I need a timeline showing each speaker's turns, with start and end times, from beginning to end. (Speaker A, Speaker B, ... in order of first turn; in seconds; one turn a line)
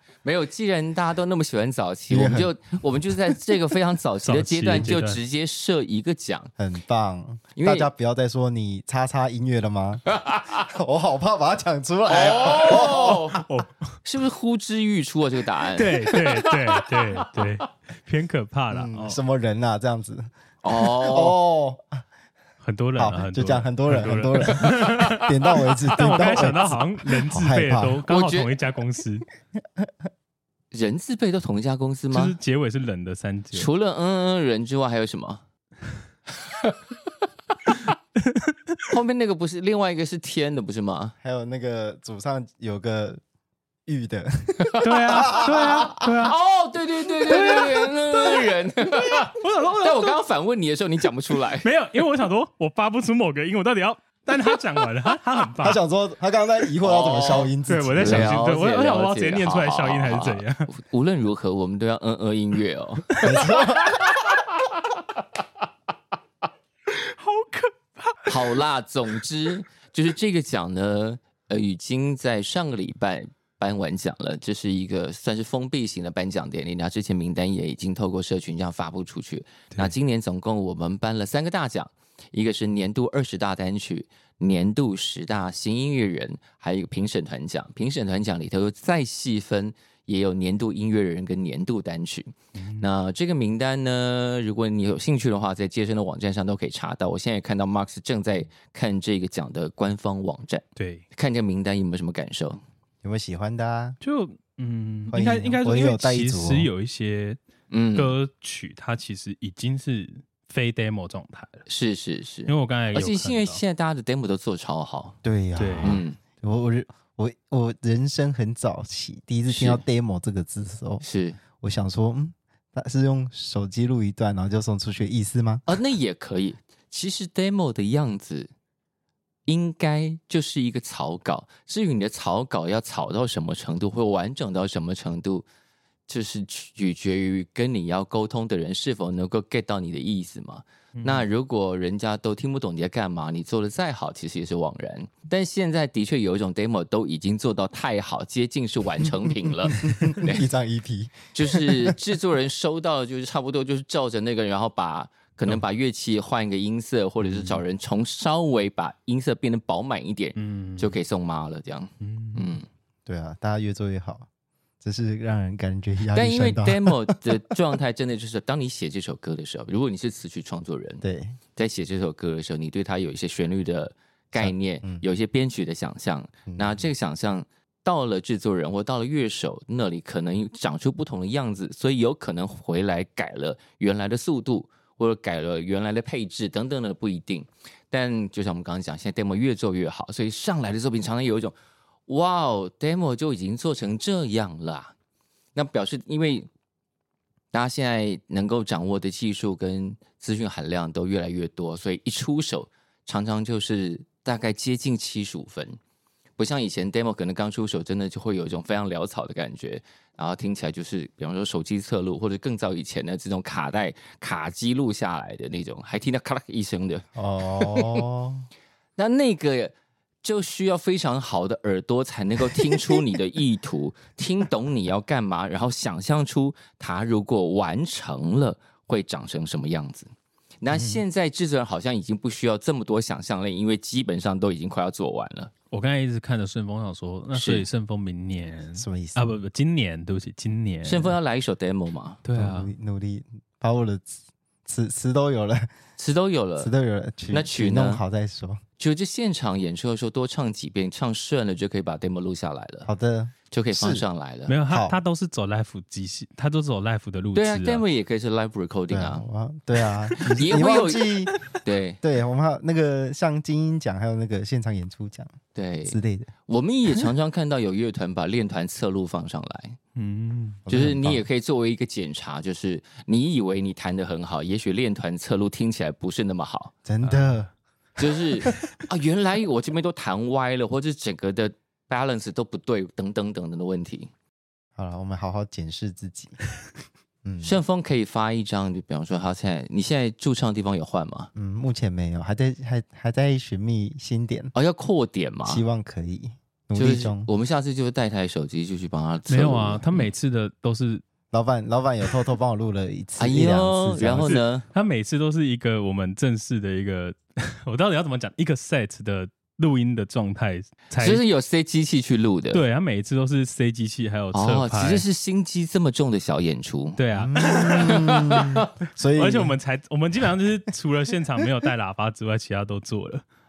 Speaker A: 0.2-6.5
Speaker B: 2.1-2.5
Speaker C: 4.2-5.2
Speaker B: 6.6-13.4
Speaker A: 7.5-7.9
Speaker A: 10.1-10.5
Speaker A: 12.1-13.4
Speaker C: 12.7-13.9
Speaker A: 14.0-16.8
Speaker C: 15.8-19.2
Speaker B: 18.7-22.0
Speaker A: 20.6-21.4
Speaker C: 22.6-29.2
Speaker B: 22.9-28.0
Speaker A: 28.1-28.5
Speaker A: 30.7-32.4
Speaker C: 32.1-33.7
Speaker A: 33.5-35.4
Speaker A: 36.5-36.7
Speaker A: 38.9-41.1
Speaker B: 41.2-43.2
Speaker B: 43.9-46.1
Speaker A: 44.7-45.5
Speaker C: 44.8-46.4
Speaker A: 46.1-51.7
Speaker C: 47.3-48.5
Speaker C: 49.2-50.2
Speaker C: 51.6-55.8
Speaker B: 55.6-58.4
Speaker A: 56.8-63.6
Speaker C: 57.6-60.7
Speaker B: 63.2-64.0
Speaker C: 66.9-68.6
Speaker A: 68.2-102.6
Speaker C: 92.6-92.9
Speaker C: 100.8-101.0
Speaker B: 103.0-104.0
Speaker C: 104.0-107.4
Speaker B: 105.1-106.7
Speaker A: 107.7-108.2
Speaker C: 107.9-111.6
Speaker A: 111.7-115.2
Speaker C: 112.5-113.6
Speaker B: 115.2-121.0
Speaker C: 115.5-116.0
Speaker A: 115.8-116.2
Speaker A: 119.5-119.8
Speaker A: 121.0-121.4
Speaker B: 121.6-125.7
Speaker A: 125.7-128.5
Speaker A: 129.4-135.4
Speaker A: 136.1-150.5
Speaker C: 140.9-141.2
Speaker B: 149.7-152.0
Speaker A: 151.3-162.7
Speaker C: 157.2-157.6
Speaker C: 160.4-160.9
Speaker C: 162.0-162.5
Speaker B: 163.1-164.3
Speaker B: 164.8-167.2
Speaker A: 166.1-171.0
Speaker B: 171.0-171.4
Speaker A: 171.6-191.5
Speaker B: 174.3-175.0
Speaker B: 176.5-176.8
Speaker A: 192.1-194.9
Speaker A: 195.5-196.5
Speaker A: 197.5-205.8
Speaker A: 206.4-218.0
Speaker B: 217.2-218.4
Speaker A: 219.0-230.1
Speaker A: 230.6-235.5
Speaker C: 235.7-241.1
Speaker A: 237.3-237.7
Speaker B: 238.8-239.4
Speaker A: 240.8-242.2
Speaker C: 242.2-242.7
Speaker B: 242.3-245.7
Speaker A: 246.0-246.7
Speaker B: 246.6-248.6
Speaker A: 247.3-248.0
Speaker A: 248.8-252.9
Speaker B: 252.8-254.1
Speaker A: 253.5-254.6
Speaker C: 254.5-257.8
Speaker B: 254.7-255.0
Speaker A: 257.3-259.2
Speaker B: 258.9-261.4
Speaker C: 260.1-260.6
Speaker A: 260.4-262.0
Speaker B: 262.0-265.3
Speaker A: 265.5-269.8
Speaker B: 265.9-266.3
Speaker C: 269.9-270.6
Speaker B: 270.6-271.2
Speaker A: 270.7-276.7
Speaker B: 276.8-277.5
Speaker C: 277.0-277.4
Speaker A: 278.0-284.1
Speaker B: 278.0-278.6
Speaker B: 284.8-286.4
Speaker B: 287.2-287.6
Speaker A: 287.4-291.3
Speaker B: 291.3-294.5
Speaker A: 294.5-295.6
Speaker B: 295.4-297.3
Speaker A: 296.7-300.1
Speaker C: 299.3-301.0
Speaker B: 301.3-304.3
Speaker A: 303.2-304.7
Speaker C: 304.1-311.2
Speaker A: 311.0-312.6
Speaker C: 312.5-315.0
Speaker A: 314.3-318.5
Speaker C: 317.0-318.6
Speaker B: 317.1-319.6
Speaker C: 319.1-323.2